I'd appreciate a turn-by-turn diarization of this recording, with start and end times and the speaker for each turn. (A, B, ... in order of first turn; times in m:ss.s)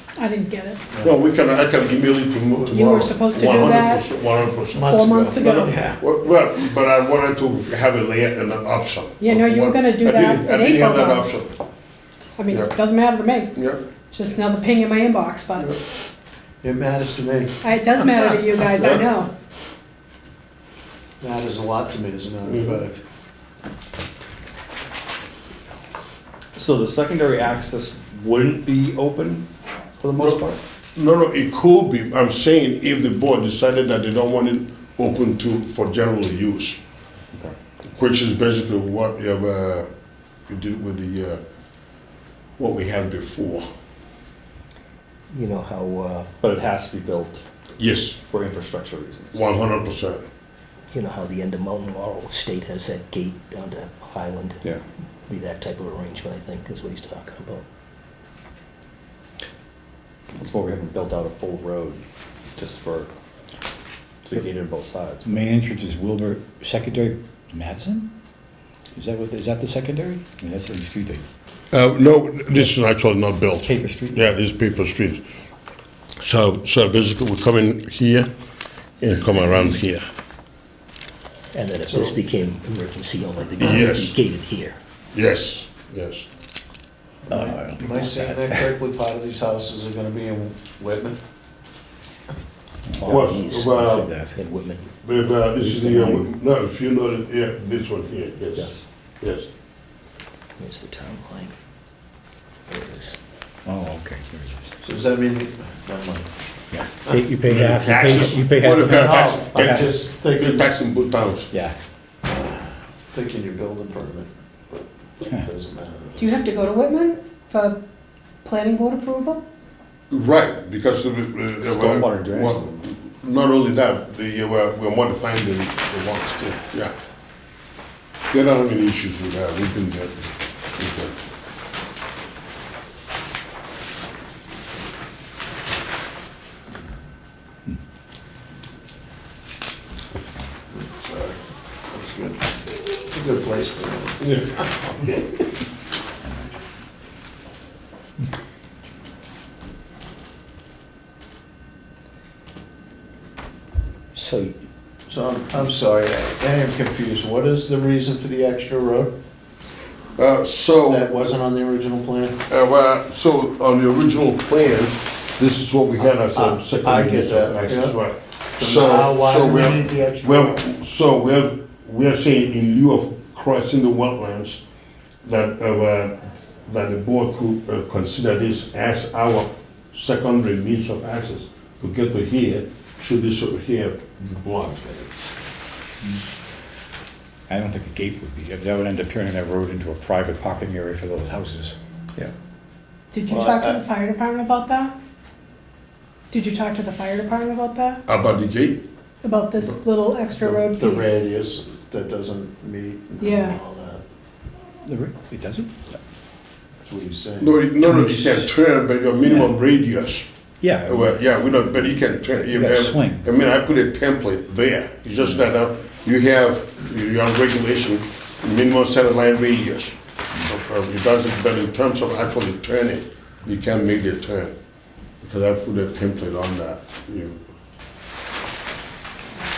0:00.2-0:00.8 A
0:01.0-0:11.5 B
0:02.7-0:04.1 A
0:04.7-0:06.0 C
0:04.7-0:05.7 A
0:09.2-0:11.3 A
0:12.4-0:13.6 A
0:13.6-0:13.8 B
0:14.1-0:15.7 A
0:16.6-0:17.6 C
0:17.6-0:19.3 A
0:21.2-0:23.0 C
0:22.4-0:22.8 B
0:26.6-0:29.5 D
0:30.0-0:30.6 D
0:30.2-0:30.4 B
0:30.9-0:36.8 B
0:37.9-0:39.9 B
0:40.5-0:41.4 B
0:42.6-0:43.6 B
0:45.3-0:46.3 E
0:46.4-0:47.4 D
0:47.8-0:48.2 B
0:48.3-0:49.4 D
0:49.3-0:50.2 B
0:50.9-0:54.7 E
0:55.3-0:57.6 E
1:00.3-1:02.0 D
1:02.6-1:03.1 D
1:04.2-1:05.6 D
1:05.2-1:08.1 F
1:08.9-1:11.2 F
1:11.7-1:15.2 B
1:13.7-1:14.1 F
1:16.2-1:18.3 B
1:19.0-1:20.1 B
1:21.5-1:24.8 E
1:23.6-1:24.1 B
1:25.1-1:26.3 B
1:27.3-1:31.2 C
1:27.3-1:28.4 F
1:32.9-1:34.3 F
1:33.0-1:33.7 E
1:33.0-1:34.1 B
1:34.4-1:34.9 E
1:35.0-1:39.5 B
1:35.6-1:36.2 F
1:38.6-1:38.8 D
1:40.6-1:41.5 E
1:42.7-1:43.2 E
1:43.7-1:44.7 F
1:44.8-1:46.3 C
1:46.7-1:49.9 F
1:47.4-1:51.5 B
1:48.8-1:50.7 C
1:51.5-1:51.8 F
1:52.3-1:56.4 C
1:56.2-1:57.8 A
1:58.4-1:59.4 A
2:00.1-2:06.9 B
2:01.8-2:02.5 F
2:01.9-2:02.7 D
2:08.3-2:11.2 B
2:20.7-2:21.4 C
2:21.9-2:22.5 C
2:23.1-2:25.2 C
2:34.1-2:34.5 E
2:35.1-2:39.2 C
2:40.2-2:41.1 B
2:40.8-2:42.4 C
2:42.5-2:54.6 B
2:46.3-2:48.0 C
2:48.6-2:50.6 C
2:55.2-3:05.2 B
3:07.5-3:12.3 F
3:13.1-3:14.9 A
3:13.3-3:13.8 C
3:16.3-3:18.0 A
3:18.1-3:18.8 B
3:19.2-3:21.2 A
3:20.4-3:24.0 C
3:23.2-3:23.6 A
3:24.8-3:26.0 F
3:26.8-3:27.6 C
3:27.4-3:30.3 B
3:27.8-3:28.5 F
3:29.2-3:29.5 F
3:30.6-3:31.2 F
3:30.8-3:44.5 B
3:32.3-3:33.3 F
3:45.2-3:47.4 B